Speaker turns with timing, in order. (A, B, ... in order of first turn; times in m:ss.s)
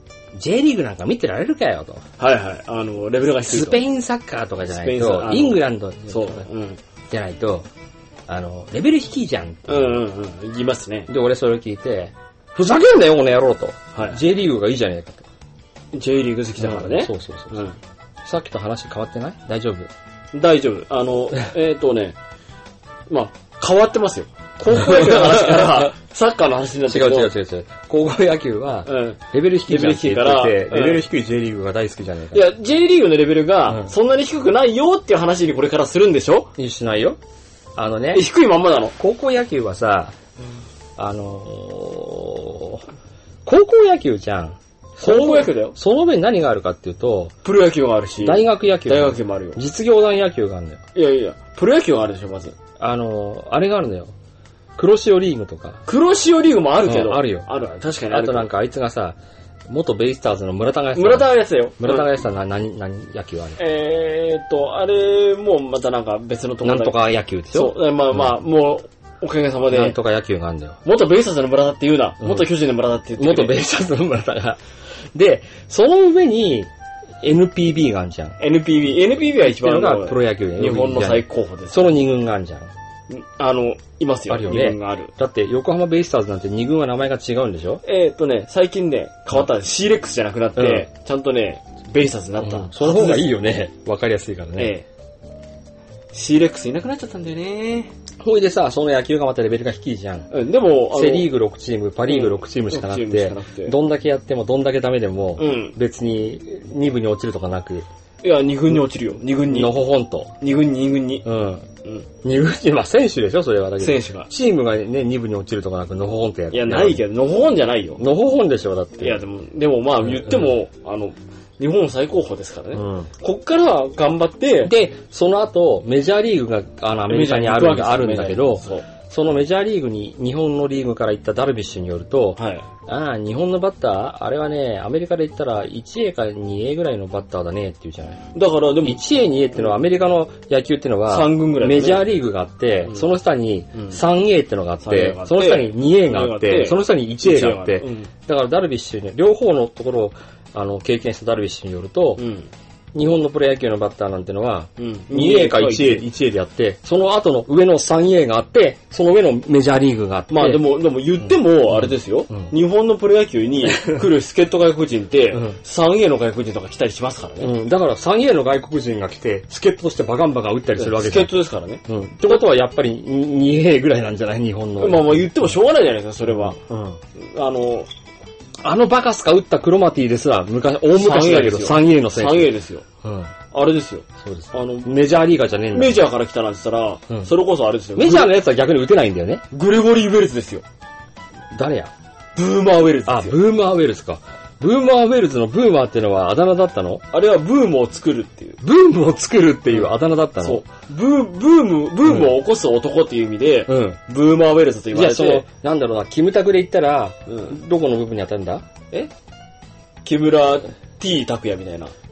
0:00.4-0:02.0 A
0:02.2-0:03.8 B
0:03.5-0:06.5 A
0:04.7-0:06.8 B
0:07.1-0:07.7 A
0:08.3-0:10.0 A
0:09.7-0:11.1 B
0:11.1-0:15.2 A
0:13.9-0:14.2 B
0:15.9-0:17.8 B
0:16.6-0:17.6 A
0:18.2-0:19.9 A
0:20.3-0:22.2 B
0:23.1-0:27.3 B
0:24.7-0:25.9 A
0:26.9-0:32.5 A
0:28.9-0:31.0 B
0:32.3-0:36.5 B
0:36.6-0:37.2 A
0:37.8-0:38.3 A
0:38.1-0:38.9 B
0:39.0-0:40.1 A
0:41.0-0:42.8 A
0:43.4-0:47.3 A
0:45.0-0:45.8 B
0:47.4-0:49.6 B
0:48.2-0:50.8 A
0:50.9-0:52.6 B
0:52.8-0:54.1 A
0:54.8-0:55.8 A
0:55.9-0:58.5 B
0:56.8-0:57.4 A
0:58.1-0:59.2 A
0:59.7-1:03.6 A
1:00.9-1:02.1 B
1:03.6-1:07.0 B
1:06.6-1:08.3 A
1:07.5-1:10.0 B
1:09.7-1:10.8 A
1:10.8-1:13.6 B
1:12.2-1:12.5 A
1:13.2-1:14.6 A
1:15.1-1:16.7 A
1:17.2-1:18.4 A
1:18.4-1:22.0 B
1:19.4-1:22.7 A
1:23.1-1:25.1 B
1:24.3-1:27.8 A
1:27.8-1:33.3 B
1:30.6-1:30.9 A
1:32.4-1:34.7 A
1:34.6-1:34.8 B
1:36.1-1:37.9 B
1:38.2-1:40.3 A
1:40.3-1:41.3 B
1:40.9-1:47.8 A
1:42.1-1:43.7 B
1:45.4-1:45.8 B
1:48.2-1:49.8 B
1:49.5-1:50.4 A
1:50.4-1:51.2 B
1:51.2-1:51.7 A
1:52.2-1:57.0 A
1:53.8-1:54.3 B
1:56.5-1:58.0 B
1:58.0-1:59.2 A
1:59.0-2:04.7 B
2:02.7-2:03.1 A
2:04.6-2:18.2 A
2:07.1-2:08.9 B
2:12.4-2:12.7 B
2:18.3-2:19.0 B
2:18.8-2:32.2 A
2:21.1-2:22.1 B
2:24.8-2:28.1 B
2:32.2-2:32.5 B
2:32.9-2:40.6 A
2:34.8-2:36.1 B
2:40.3-2:47.5 B
2:41.7-2:42.5 A
2:43.7-2:44.0 A
2:47.4-2:55.6 A
2:50.8-2:52.4 B
2:54.8-2:56.6 B
2:56.3-2:57.0 A
2:57.1-2:57.9 B
2:58.6-3:02.5 A
3:00.9-3:02.8 B
3:03.0-3:03.3 A
3:03.5-3:04.9 B
3:04.2-3:06.0 A
3:05.7-3:08.3 B
3:08.0-3:09.4 A
3:09.5-3:10.6 B
3:11.5-3:11.9 A
3:12.4-3:13.4 B
3:13.0-3:17.0 A
3:17.1-3:18.6 B
3:18.6-3:20.6 A
3:19.7-3:25.4 B
3:22.0-3:22.3 A
3:23.7-3:24.0 A
3:24.9-3:28.6 A
3:27.3-3:27.6 B
3:30.0-3:31.9 B